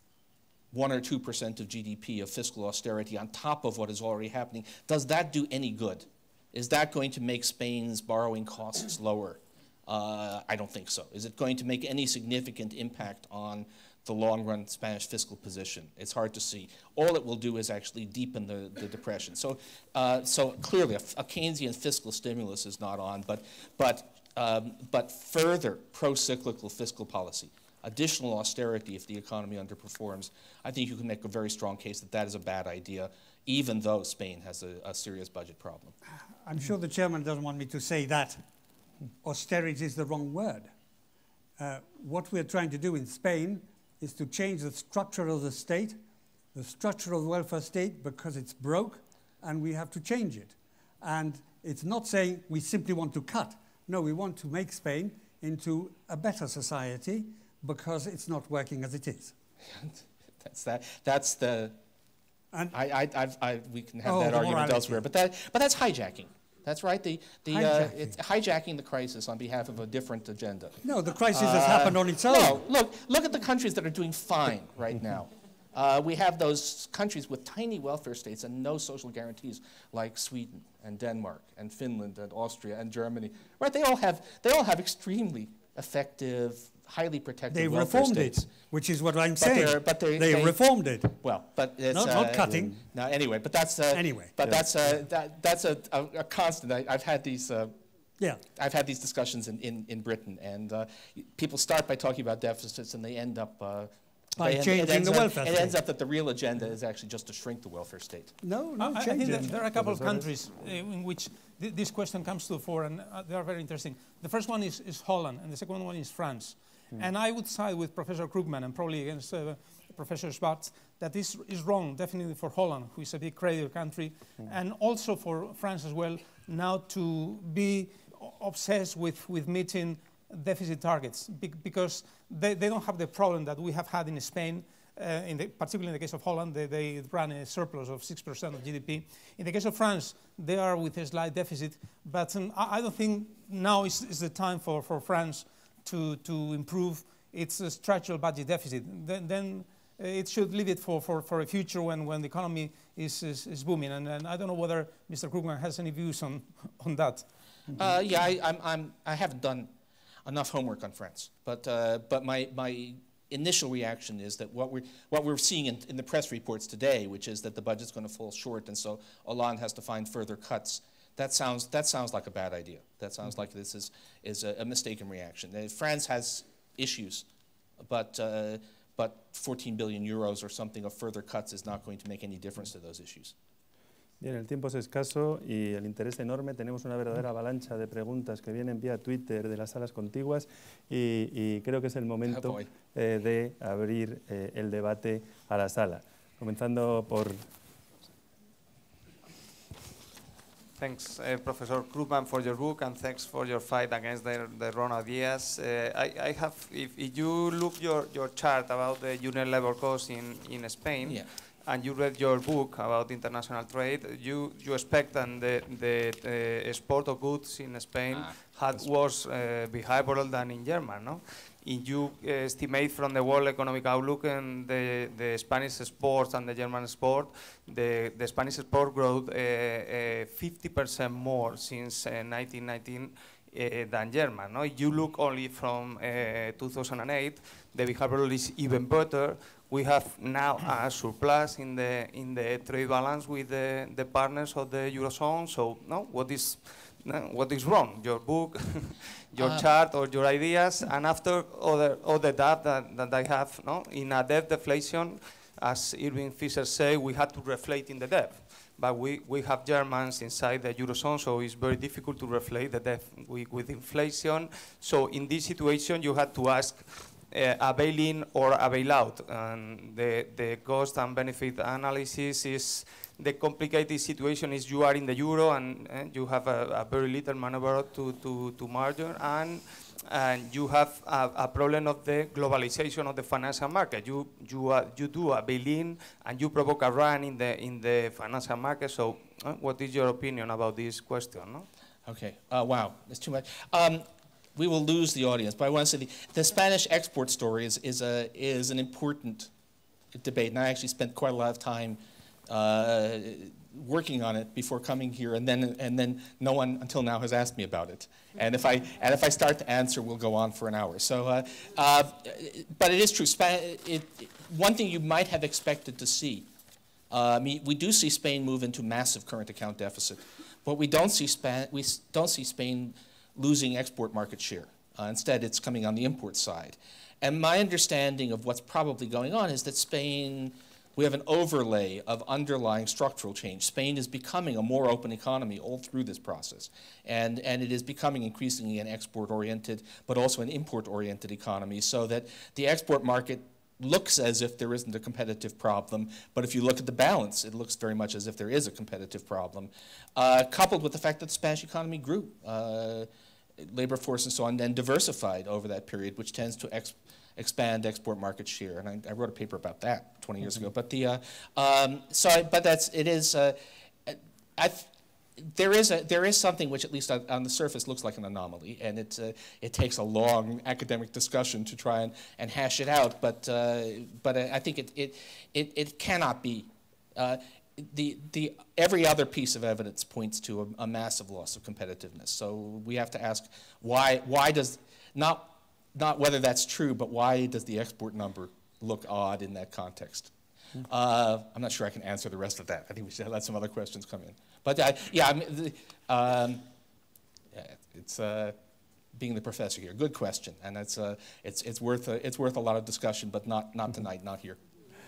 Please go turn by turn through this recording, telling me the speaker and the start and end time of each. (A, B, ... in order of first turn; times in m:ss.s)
0:00.7-0:35.9 A
0:36.4-0:38.4 B
0:39.2-0:40.7 B
0:41.6-0:46.0 B
0:46.5-0:59.3 B
0:59.7-1:01.7 A
1:02.7-1:28.5 A
1:04.0-1:05.0 B
1:07.5-1:08.1 B
1:10.8-1:12.6 B
1:27.5-1:31.2 B
1:29.4-1:30.6 A
1:31.2-1:37.7 A
1:31.9-1:32.8 B
1:33.9-1:34.3 B
1:38.6-1:48.3 A
1:44.4-1:45.8 B
1:48.4-1:49.5 B
1:48.8-2:37.2 C
1:49.2-1:50.2 D
2:37.8-2:39.7 A
2:40.2-2:57.2 A
2:57.8-3:03.3 A
3:04.2-3:17.4 D
3:12.3-3:12.7 A
3:20.8-4:51.7 E
3:31.0-3:31.3 A
4:09.4-4:09.6 A
4:52.0-4:59.5 A
5:00.1-5:16.5 A
5:17.1-6:30.3 A
6:30.8-6:36.6 A
6:37.5-6:38.6 A
6:39.1-6:44.6 A